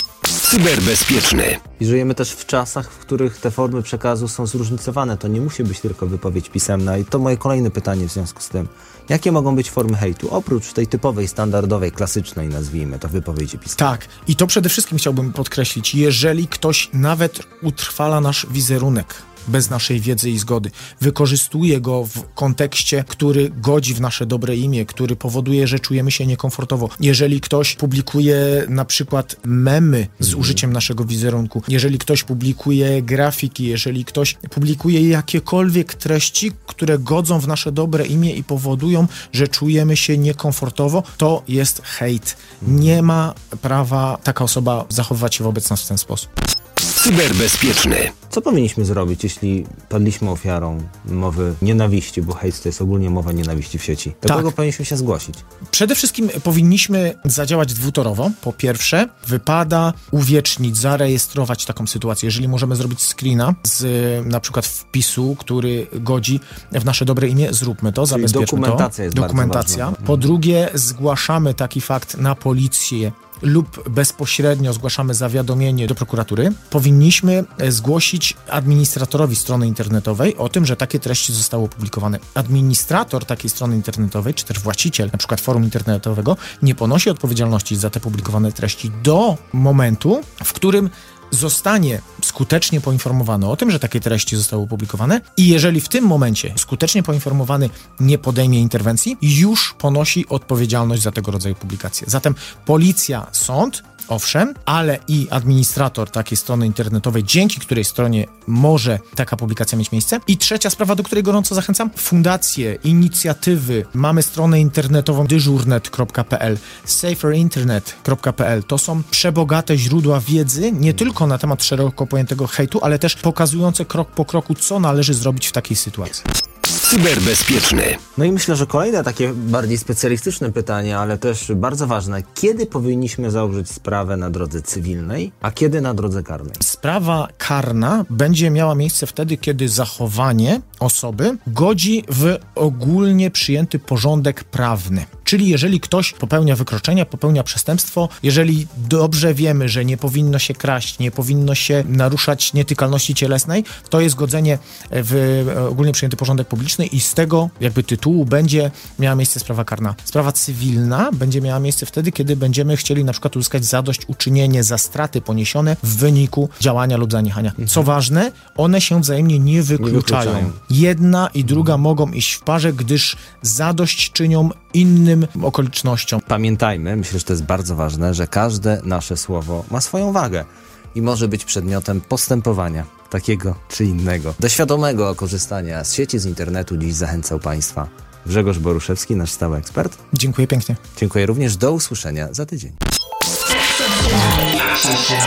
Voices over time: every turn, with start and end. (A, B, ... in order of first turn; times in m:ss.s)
0:00.4-0:01.6 A
0:01.8-0:13.8 B
0:13.8-0:46.3 C
0:46.9-0:48.1 A
0:48.3-0:55.4 B
0:54.3-0:54.5 C
0:55.7-2:06.2 C
1:08.1-1:10.3 B
2:06.8-2:08.0 A
2:08.2-2:16.6 B
2:16.6-2:56.2 C
2:49.8-2:50.6 B
2:56.3-3:10.0 B
3:10.1-3:10.8 C
3:11.0-3:12.8 B